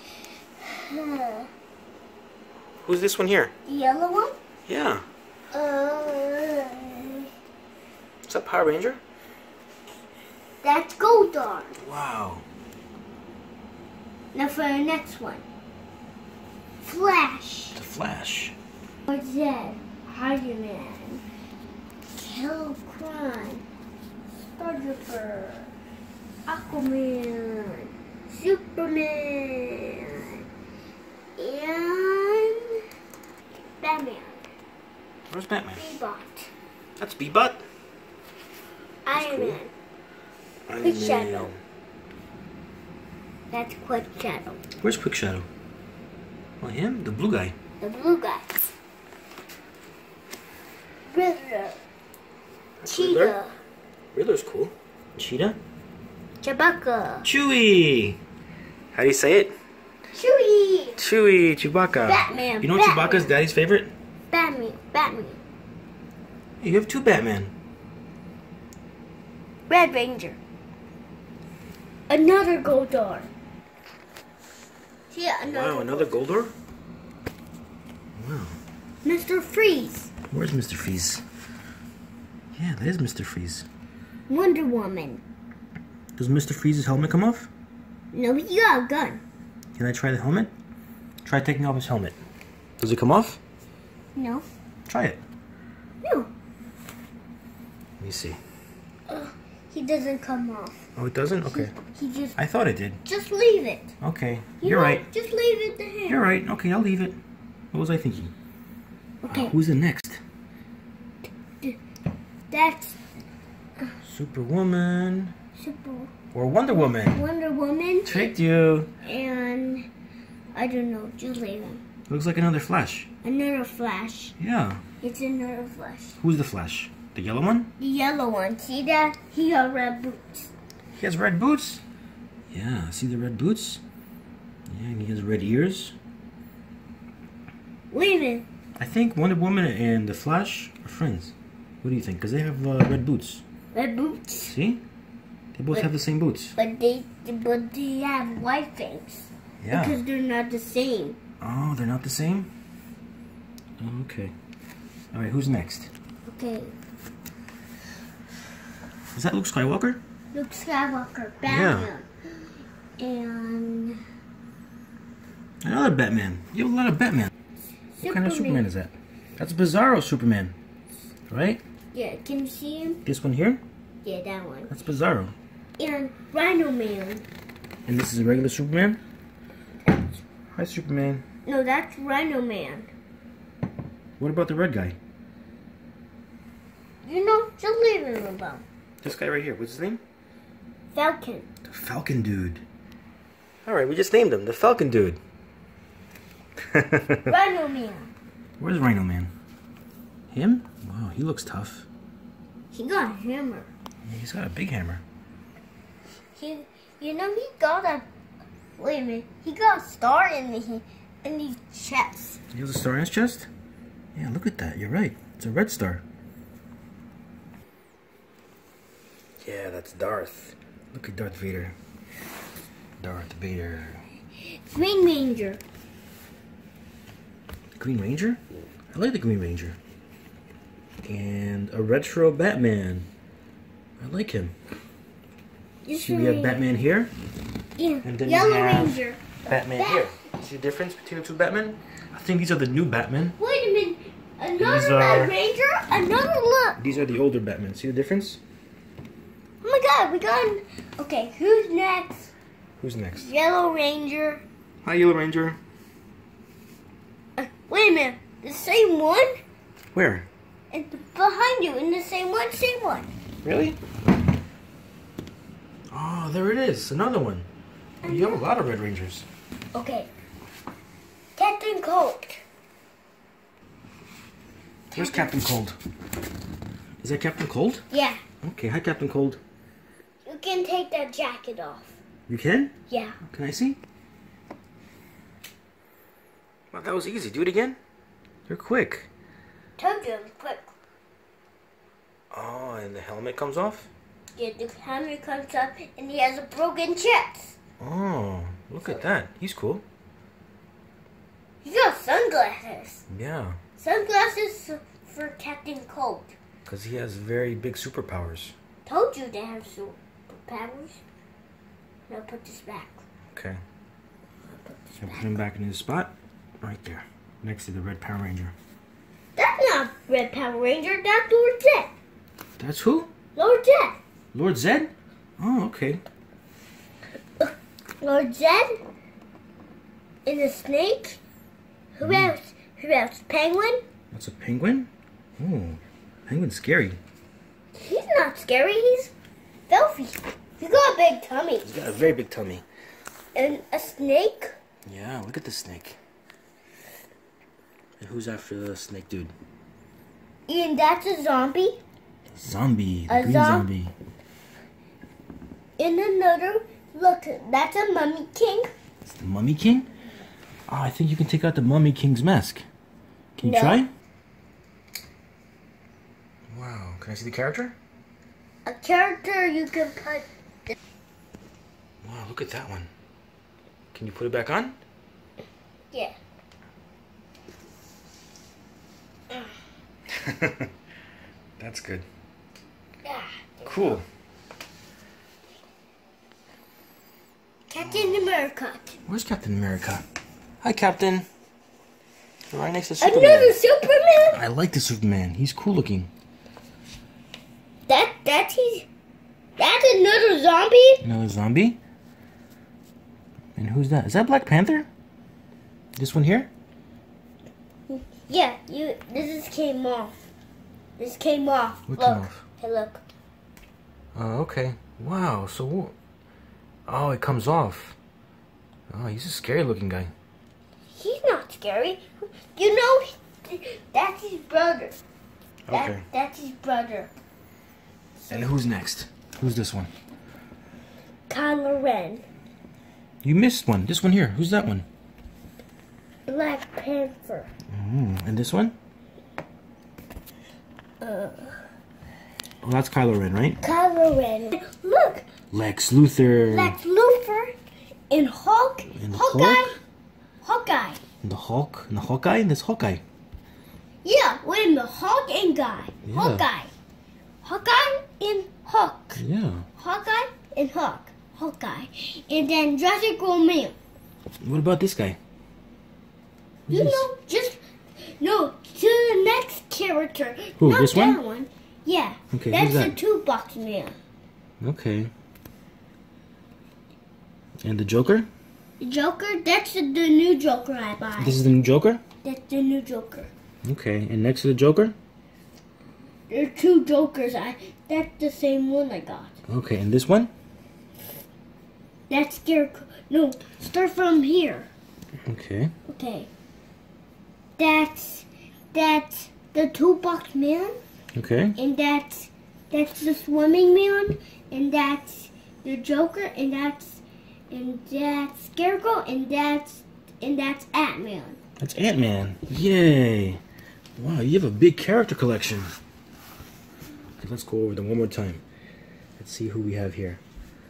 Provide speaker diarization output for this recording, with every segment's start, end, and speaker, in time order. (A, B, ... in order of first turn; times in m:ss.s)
0:00.6-0:01.5 A
0:02.8-0:03.5 B
0:03.6-0:04.4 A
0:04.7-0:05.0 B
0:05.5-0:07.3 A
0:08.3-0:09.0 B
0:10.6-0:11.8 A
0:11.8-0:12.4 B
0:14.3-0:15.4 A
0:16.8-0:17.8 A
0:17.7-0:18.5 B
0:19.1-0:21.2 A
0:22.2-0:23.6 A
0:24.4-0:25.7 A
0:26.4-0:30.4 A
0:31.4-0:32.6 A
0:33.8-0:34.5 A
0:35.3-0:35.8 B
0:35.8-0:36.5 A
0:37.0-0:37.6 B
0:39.0-0:39.7 A
0:39.1-0:39.6 B
0:40.7-0:41.6 B
0:40.8-0:41.5 A
0:43.5-0:44.6 A
0:44.8-0:45.5 B
0:46.6-0:47.5 B
0:47.8-0:48.7 A
0:51.1-0:51.8 A
0:52.8-0:53.4 B
0:52.9-0:53.6 A
0:54.1-0:55.6 B
0:56.4-0:57.3 A
0:57.2-0:58.2 B
0:58.9-0:59.5 B
1:00.1-1:01.0 A
1:01.0-1:03.9 B
1:02.0-1:03.3 A
1:04.3-1:05.4 A
1:06.6-1:07.5 B
1:09.7-1:10.4 A
1:12.1-1:13.3 A
1:15.1-1:16.2 A
1:15.4-1:16.5 B
1:18.2-1:18.6 B
1:19.0-1:20.1 A
1:20.3-1:21.2 B
1:22.5-1:23.7 B
1:24.3-1:25.2 A
1:26.2-1:27.5 B
1:28.1-1:29.2 A
1:29.8-1:30.5 B
1:31.2-1:32.2 B
1:32.8-1:33.4 B
1:34.2-1:34.5 A
1:34.9-1:35.2 B
1:36.0-1:36.3 A
1:38.0-1:38.4 B
1:39.1-1:40.8 A
1:41.0-1:41.7 B
1:41.5-1:42.4 A
1:42.4-1:43.0 B
1:43.0-1:43.9 A
1:44.0-1:45.0 B
1:44.6-1:46.2 A
1:46.1-1:47.2 B
1:47.7-1:48.3 B
1:49.2-1:49.6 A
1:49.3-1:50.2 B
1:52.5-1:53.0 A
1:54.0-1:55.3 B
1:55.6-1:56.1 A
1:56.3-1:57.2 B
1:57.0-1:58.3 A
1:58.0-1:58.9 B
1:59.0-1:59.9 A
2:00.5-2:01.8 A
2:02.1-2:03.1 B
2:03.2-2:04.3 A
2:04.4-2:04.8 B
2:05.0-2:06.2 A
2:06.2-2:07.7 B
2:07.8-2:10.5 A
2:10.9-2:11.8 B
2:12.5-2:13.8 B
2:14.7-2:15.9 B
2:17.9-2:18.4 A
2:18.8-2:23.4 B
2:23.7-2:24.5 A
2:24.4-2:24.8 B
2:25.5-2:26.6 B
2:26.6-2:31.2 A
2:29.6-2:30.0 B
2:31.4-2:32.5 B
2:33.8-2:34.3 B
2:35.1-2:35.9 B
2:36.2-2:36.7 A
2:39.1-2:40.0 B
2:40.3-2:42.1 A
2:41.4-2:41.9 B
2:43.0-2:44.0 A
2:45.6-2:47.3 B
2:47.9-2:48.6 A
2:48.0-2:50.6 B
2:51.3-2:51.6 B
2:51.9-2:53.0 A
2:53.0-2:53.6 B
2:54.0-2:54.7 A
2:54.7-2:55.3 B
2:55.8-2:57.2 A
2:57.8-2:59.0 B
2:59.8-3:00.2 A
3:00.5-3:01.2 B
3:01.4-3:02.9 A
3:04.2-3:05.0 B
3:07.0-3:08.6 A
3:09.0-3:10.0 B
3:10.9-3:11.5 A
3:11.6-3:12.6 B
3:13.6-3:15.2 B
3:16.7-3:17.3 B
3:17.3-3:18.1 A
3:18.6-3:19.3 B
3:20.3-3:21.9 B
3:22.7-3:23.7 A
3:24.0-3:25.0 B
3:26.3-3:28.0 A
3:28.8-3:32.4 A
3:32.5-3:33.5 B
3:34.1-3:36.0 B
3:39.4-3:41.8 B
3:43.0-3:44.0 B
3:44.4-3:45.6 A
3:47.8-3:48.4 B
3:48.9-3:49.8 B
3:51.0-3:53.1 B
3:54.0-3:54.5 B
3:55.8-3:56.6 A
3:56.0-3:57.1 B
3:57.8-4:00.2 A
3:58.0-4:03.4 B
4:03.4-4:06.8 A
4:04.6-4:05.4 B
4:06.8-4:08.4 B
4:09.6-4:12.3 A
4:12.8-4:13.2 B
4:13.2-4:14.4 A
4:14.8-4:15.6 B
4:17.4-4:19.3 A
4:19.9-4:20.3 B
4:20.7-4:23.1 A
4:23.4-4:23.8 B
4:25.9-4:27.5 B
4:28.0-4:28.4 A
4:28.0-4:29.3 B
4:29.7-4:30.1 A
4:31.4-4:32.4 A
4:34.9-4:35.4 A
4:34.9-4:35.8 B
4:37.0-4:37.8 B
4:37.9-4:38.2 A
4:38.4-4:39.4 B
4:40.2-4:42.0 A
4:42.3-4:43.8 B
4:42.9-4:43.2 A
4:46.7-4:47.8 B
4:48.5-4:49.1 B
4:49.8-4:50.7 A
4:52.3-4:53.9 B
4:54.3-4:57.6 A
4:57.8-4:59.8 B
5:01.6-5:03.0 A
5:03.1-5:03.6 B
5:03.8-5:06.3 A
5:06.6-5:08.5 B
5:08.8-5:11.0 A
5:12.1-5:13.0 A
5:13.3-5:13.6 B
5:14.7-5:15.4 A
5:15.0-5:18.5 B
5:19.4-5:21.9 A
5:22.6-5:23.1 B
5:23.4-5:24.0 A
5:24.3-5:26.0 B
5:27.4-5:28.7 A
5:30.2-5:31.2 A
5:32.0-5:33.8 A
5:32.0-5:32.3 B
5:34.1-5:37.0 B
5:37.8-5:39.1 A
5:39.7-5:41.7 A
5:41.6-5:42.6 B
5:43.3-5:44.5 A
5:44.8-5:46.0 B
5:48.0-5:49.3 B
5:50.5-5:51.8 A
5:52.3-5:53.9 B
5:53.1-5:53.7 A
5:55.8-5:58.7 A
5:59.0-5:59.9 B
6:00.7-6:02.6 B
6:03.4-6:03.9 B
6:03.4-6:03.8 A
6:06.5-6:07.8 B
6:08.6-6:10.3 A
6:12.0-6:12.9 B
6:13.9-6:14.8 B
6:15.9-6:16.2 A
6:20.1-6:20.7 B
6:21.6-6:22.1 B
6:23.0-6:24.0 A
6:23.6-6:24.0 B
6:27.7-6:29.0 A
6:29.0-6:30.0 B
6:30.6-6:31.3 B
6:32.5-6:33.6 B
6:33.0-6:34.4 A
6:34.3-6:36.1 B
6:37.9-6:38.9 A
6:39.6-6:41.0 A
6:41.0-6:41.8 B
6:43.5-6:44.9 B
6:46.0-6:46.5 B
6:47.9-6:50.2 A
6:51.0-6:53.0 A
6:51.9-6:52.4 B
6:54.1-6:55.9 B
6:56.9-6:58.0 B
6:58.9-7:00.1 B
7:00.9-7:05.0 A
7:05.6-7:06.0 B
7:05.7-7:07.1 A
7:08.2-7:08.5 A
7:08.3-7:09.9 B
7:11.3-7:12.2 A
7:13.2-7:14.9 B
7:16.3-7:17.5 A
7:17.7-7:18.7 B
7:21.0-7:21.6 A
7:22.6-7:23.6 B
7:23.6-7:25.2 A
7:25.5-7:26.8 B
7:26.4-7:27.5 A
7:28.1-7:29.8 A
7:28.9-7:29.8 B
7:30.4-7:31.0 A
7:31.2-7:33.0 B
7:34.0-7:36.7 A
7:36.0-7:36.4 B
7:37.4-7:39.2 A
7:39.2-7:39.7 B
7:39.8-7:43.8 A
7:44.4-7:45.2 B
7:46.7-7:47.1 B
7:46.7-7:54.0 A
7:50.6-7:51.2 B
7:52.3-7:53.0 B
7:54.6-7:55.1 B
7:57.6-7:58.3 B
7:58.8-8:01.4 A
8:01.2-8:02.0 B
8:02.2-8:03.3 A
8:03.6-8:05.0 B
8:06.3-8:09.4 A
8:09.5-8:10.3 B
8:12.1-8:14.7 A
8:15.3-8:15.7 B
8:15.9-8:16.3 A
8:17.6-8:20.8 A
8:21.1-8:21.6 B
8:21.6-8:31.4 A
8:31.6-8:33.4 B
8:34.0-8:35.7 B
8:37.2-8:38.4 B
8:39.2-8:40.2 B